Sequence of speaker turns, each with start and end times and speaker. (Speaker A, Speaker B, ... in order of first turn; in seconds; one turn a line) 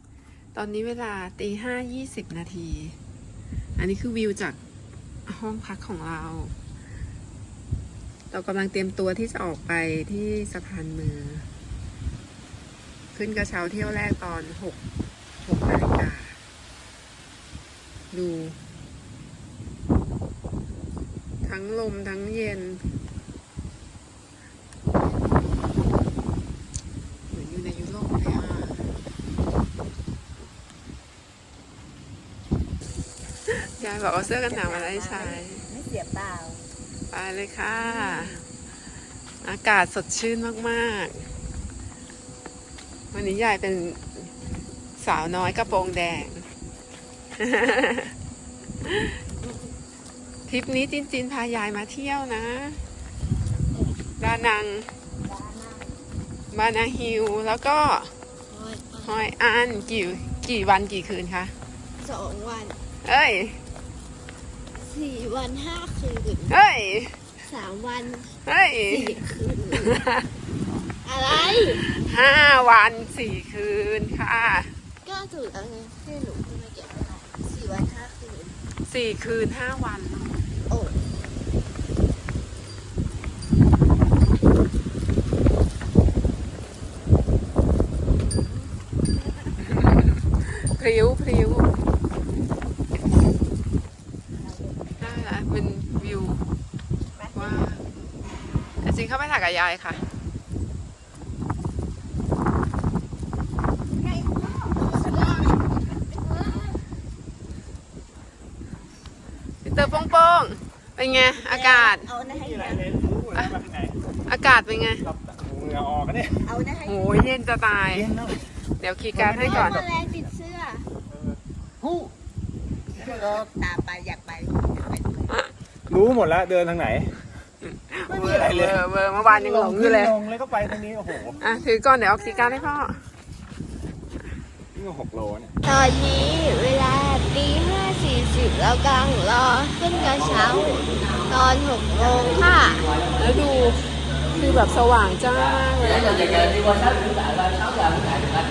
Speaker A: 0.6-3.0
Speaker A: 3.8-4.6
Speaker A: 5.3-6.5
Speaker A: 8.3-11.5
Speaker A: 13.1-14.8
Speaker A: 15.4-16.4
Speaker A: 18.1-18.6
Speaker A: 21.4-22.8
Speaker A: 27.3-28.9
Speaker B: 33.6-36.7
Speaker A: 33.7-35.6
Speaker A: 37.1-38.4
Speaker B: 37.7-38.4
Speaker A: 39.4-41.3
Speaker A: 43.1-44.3
Speaker A: 45.0-46.5
Speaker A: 47.4-48.1
Speaker A: 48.9-49.2
Speaker A: 50.5-52.8
Speaker A: 54.2-54.9
Speaker B: 55.2-56.0
Speaker A: 56.5-58.1
Speaker B: 58.5-59.2
Speaker A: 59.0-61.5
Speaker B: 62.0-62.8
Speaker A: 63.0-63.6
Speaker B: 64.8-66.5
Speaker A: 66.5-67.2
Speaker B: 67.4-68.3
Speaker A: 68.5-69.2
Speaker B: 68.9-70.0
Speaker A: 69.8-70.2
Speaker B: 71.0-71.8
Speaker A: 71.5-74.7
Speaker B: 75.0-78.6
Speaker A: 78.9-80.4
Speaker B: 80.7-81.0
Speaker B: 88.3-88.7
Speaker A: 89.6-91.8
Speaker B: 94.4-95.3
Speaker A: 95.0-96.4
Speaker B: 97.2-97.7
Speaker A: 97.3-97.8
Speaker A: 98.8-100.0
Speaker B: 103.9-105.6
Speaker A: 109.6-112.1
Speaker B: 111.5-112.9
Speaker C: 112.2-114.0
Speaker A: 114.3-115.0
Speaker C: 115.0-116.5
Speaker B: 116.5-117.2
Speaker A: 116.9-118.1
Speaker C: 117.9-118.5
Speaker A: 118.8-119.8
Speaker C: 119.1-120.3
Speaker B: 119.4-120.9
Speaker C: 121.1-122.1
Speaker B: 123.0-125.3
Speaker C: 123.0-123.5
Speaker C: 125.9-127.1
Speaker A: 127.6-130.2
Speaker C: 128.1-131.4
Speaker A: 131.4-133.0
Speaker C: 134.8-135.5
Speaker B: 135.6-142.9
Speaker A: 143.2-146.7